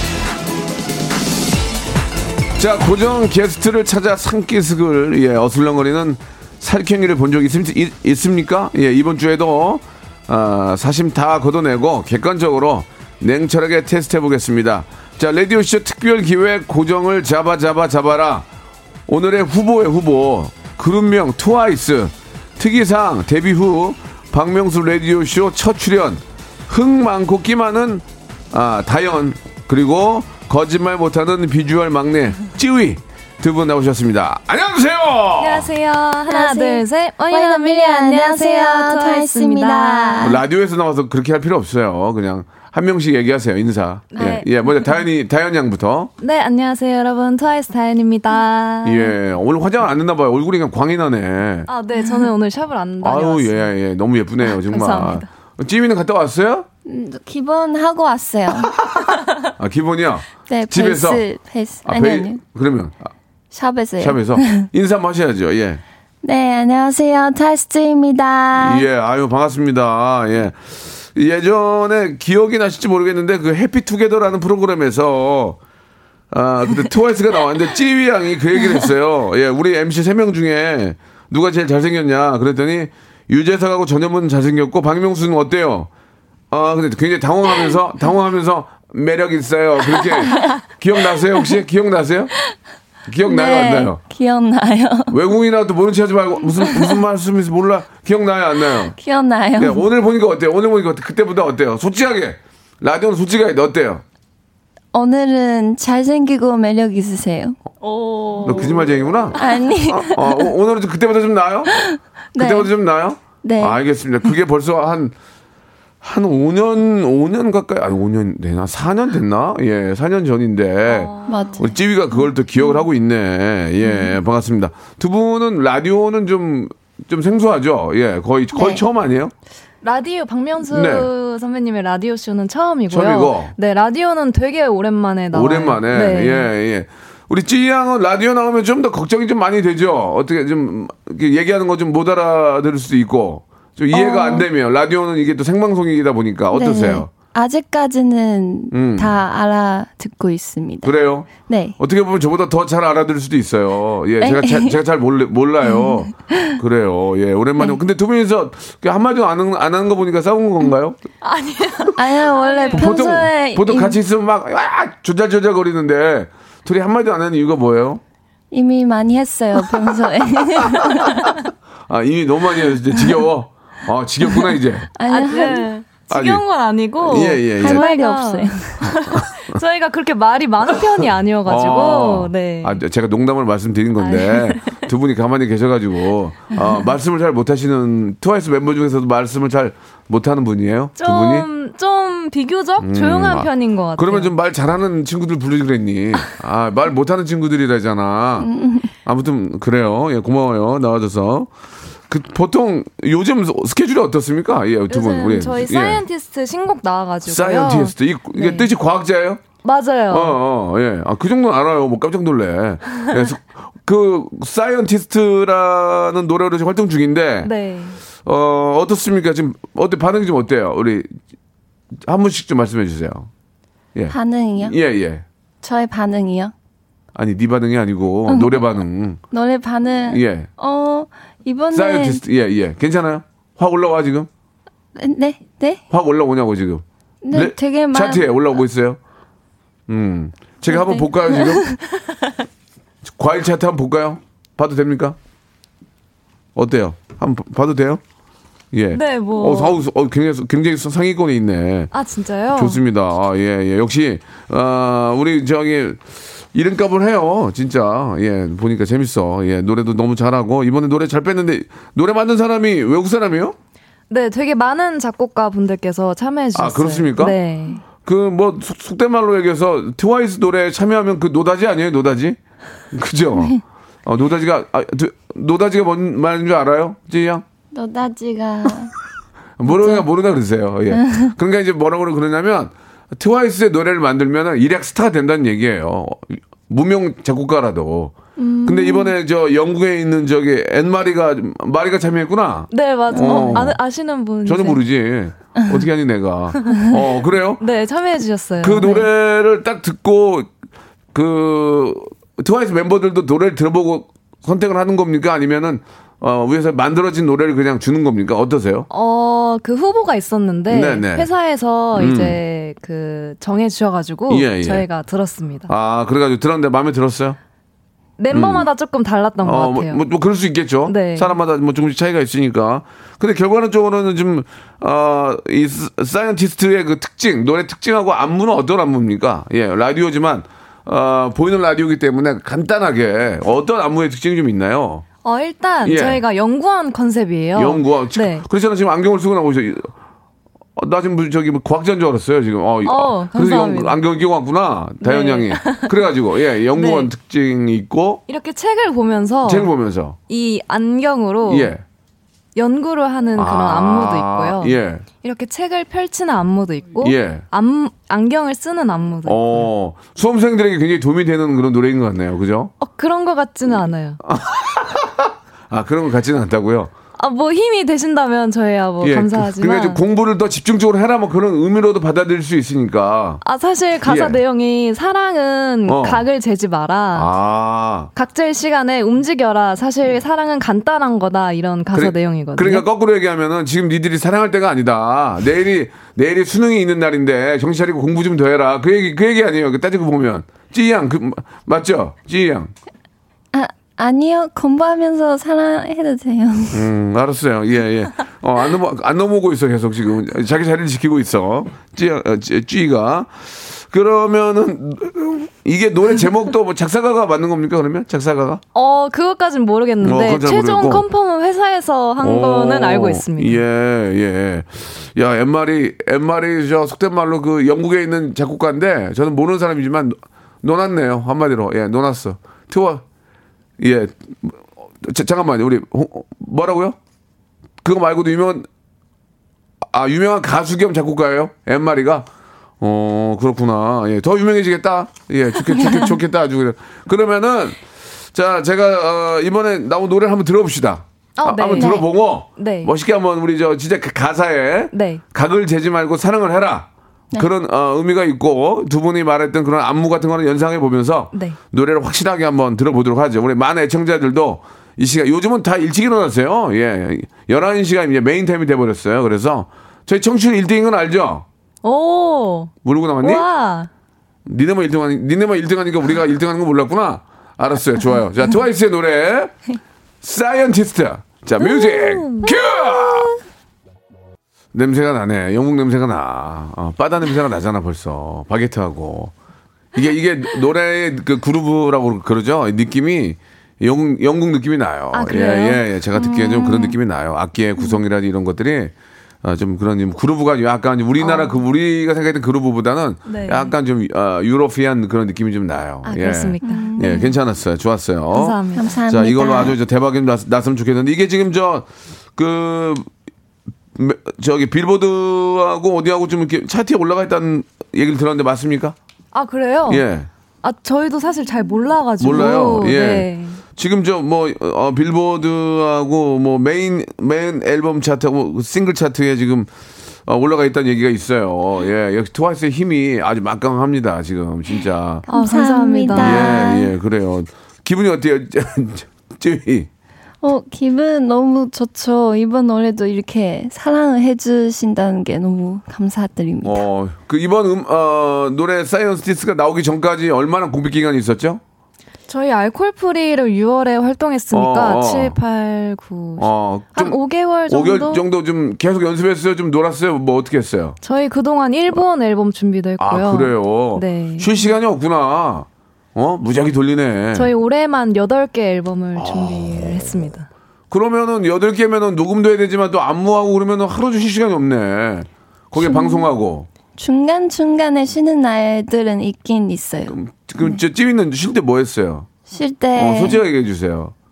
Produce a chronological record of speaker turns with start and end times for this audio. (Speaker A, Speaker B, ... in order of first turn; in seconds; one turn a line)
Speaker A: 2.6-18.4
Speaker A: 19.1-35.7
Speaker B: 35.4-40.3
Speaker C: 36.3-40.4
Speaker A: 40.2-46.1
Speaker B: 44.1-44.4
Speaker B: 46.2-49.1
Speaker A: 48.8-51.7
Speaker B: 51.7-53.7
Speaker A: 53.0-56.7
Speaker B: 54.4-55.2
Speaker C: 56.9-58.8
Speaker A: 58.9-61.2
Speaker C: 60.5-62.4
Speaker A: 61.9-63.1
Speaker C: 63.5-64.7
Speaker A: 64.0-65.8
Speaker C: 66.2-68.8
Speaker A: 68.6-75.6
Speaker A: 76.3-85.9
Speaker A: 86.5-92.3
Speaker A: 93.1-94.0
Speaker C: 93.2-95.1
Speaker A: 95.1-99.0
Speaker C: 96.6-96.9
Speaker C: 98.9-99.8
Speaker A: 99.6-104.0
Speaker C: 104.9-107.5
Speaker B: 107.8-109.0
Speaker A: 108.4-111.7
Speaker C: 109.4-110.5
Speaker C: 111.7-112.7
Speaker A: 112.3-115.1
Speaker C: 113.4-113.8
Speaker A: 116.0-129.3
Speaker B: 120.9-121.5
Speaker C: 121.3-121.7
Speaker C: 128.5-128.8
Speaker B: 129.8-136.5
Speaker A: 130.7-131.1
Speaker A: 132.9-133.5
Speaker A: 135.3-147.1
Speaker C: 143.9-144.5
Speaker C: 146.5-151.8
Speaker A: 148.7-149.1
Speaker A: 150.8-161.0
Speaker C: 154.2-154.7
Speaker C: 155.8-156.6
Speaker B: 161.2-163.1
Speaker C: 161.9-164.0
Speaker A: 162.7-168.0
Speaker C: 168.5-171.3
Speaker A: 170.6-171.3
Speaker A: 171.9-174.9
Speaker C: 174.9-175.7
Speaker B: 175.1-182.8
Speaker A: 176.1-176.4
Speaker A: 177.0-177.8
Speaker C: 177.6-178.9
Speaker A: 178.8-179.6
Speaker A: 181.4-191.5
Speaker B: 184.0-184.8
Speaker B: 191.0-194.3
Speaker A: 192.8-198.5
Speaker C: 198.4-198.9
Speaker A: 199.0-201.5
Speaker A: 202.1-206.0
Speaker B: 204.9-208.7
Speaker A: 207.2-209.4
Speaker B: 209.6-210.4
Speaker A: 210.1-217.5
Speaker B: 217.4-218.0
Speaker A: 218.2-221.1
Speaker A: 222.0-223.3
Speaker A: 223.9-225.2
Speaker C: 224.1-224.7
Speaker C: 225.6-226.5
Speaker A: 227.1-229.2
Speaker C: 228.3-228.6
Speaker C: 229.3-232.2
Speaker A: 230.1-230.5
Speaker A: 231.7-234.3
Speaker C: 234.9-235.8
Speaker A: 235.9-239.0
Speaker C: 237.2-238.2
Speaker A: 239.9-241.6
Speaker C: 240.7-241.7
Speaker A: 243.1-245.2
Speaker A: 246.5-248.0
Speaker A: 248.7-251.9
Speaker B: 248.9-249.8
Speaker B: 251.9-252.8
Speaker A: 252.5-256.0
Speaker A: 256.5-263.6
Speaker B: 264.1-267.8
Speaker A: 266.5-267.4
Speaker A: 268.0-272.4
Speaker A: 272.9-277.4
Speaker C: 277.7-278.9
Speaker A: 279.6-288.1
Speaker C: 279.7-280.0
Speaker C: 281.0-281.3
Speaker C: 288.4-289.1
Speaker A: 288.6-293.8
Speaker B: 292.7-294.8
Speaker C: 293.1-293.6
Speaker A: 294.4-297.6
Speaker B: 296.6-296.9
Speaker B: 297.6-299.1
Speaker A: 298.6-300.5
Speaker A: 301.1-308.9
Speaker B: 308.9-315.7
Speaker A: 310.7-311.3
Speaker A: 311.9-312.4
Speaker A: 314.3-314.8
Speaker A: 315.7-317.4
Speaker B: 318.2-320.0
Speaker A: 318.3-318.6
Speaker A: 319.4-335.0
Speaker B: 320.9-321.3
Speaker B: 335.2-338.4
Speaker A: 335.8-336.2
Speaker A: 337.5-339.9
Speaker A: 340.8-348.2
Speaker B: 342.8-344.0
Speaker B: 345.0-345.9
Speaker B: 346.7-347.1
Speaker B: 348.3-349.7
Speaker A: 349.4-350.2
Speaker B: 350.3-351.7
Speaker A: 351.4-351.8
Speaker B: 352.5-359.6
Speaker A: 353.3-355.0
Speaker A: 357.0-357.4
Speaker A: 359.2-362.7
Speaker B: 362.8-364.2
Speaker A: 364.2-366.9
Speaker B: 367.2-370.0
Speaker A: 369.0-373.4
Speaker B: 373.4-377.3
Speaker A: 374.0-374.4
Speaker A: 375.9-376.2
Speaker A: 377.1-378.1
Speaker B: 378.1-382.8
Speaker A: 381.9-392.7
Speaker C: 393.5-396.9
Speaker A: 396.7-408.6
Speaker B: 408.7-413.6
Speaker A: 410.0-411.0
Speaker A: 412.2-423.0
Speaker A: 423.8-427.0
Speaker A: 427.8-428.7
Speaker A: 429.8-432.3
Speaker A: 432.8-437.8
Speaker A: 438.3-461.4
Speaker B: 441.4-442.9
Speaker B: 444.9-445.2
Speaker B: 451.3-451.6
Speaker B: 461.8-463.9
Speaker A: 462.8-463.5
Speaker A: 464.4-469.6
Speaker A: 470.2-473.3
Speaker B: 471.6-473.3
Speaker A: 474.7-479.3
Speaker A: 479.9-503.1
Speaker B: 485.1-485.8
Speaker C: 491.2-491.5
Speaker B: 493.2-493.8
Speaker B: 496.0-497.1
Speaker C: 496.6-497.3
Speaker B: 498.3-498.9
Speaker C: 498.7-499.8
Speaker A: 503.9-508.9
Speaker B: 509.3-510.0
Speaker A: 509.9-510.3
Speaker B: 510.6-513.6
Speaker A: 512.2-519.7
Speaker A: 520.2-525.2
Speaker C: 525.3-526.9
Speaker B: 525.3-526.7
Speaker A: 526.2-529.9
Speaker C: 530.4-536.8
Speaker A: 536.6-541.6
Speaker B: 542.3-548.2
Speaker A: 544.5-545.4
Speaker A: 546.4-551.0
Speaker B: 551.0-554.7
Speaker A: 553.0-557.5
Speaker B: 557.3-560.5
Speaker A: 559.2-560.1
Speaker A: 560.9-566.7
Speaker C: 565.8-566.2
Speaker C: 567.0-570.1
Speaker A: 570.1-572.3
Speaker C: 572.5-573.4
Speaker A: 572.9-574.1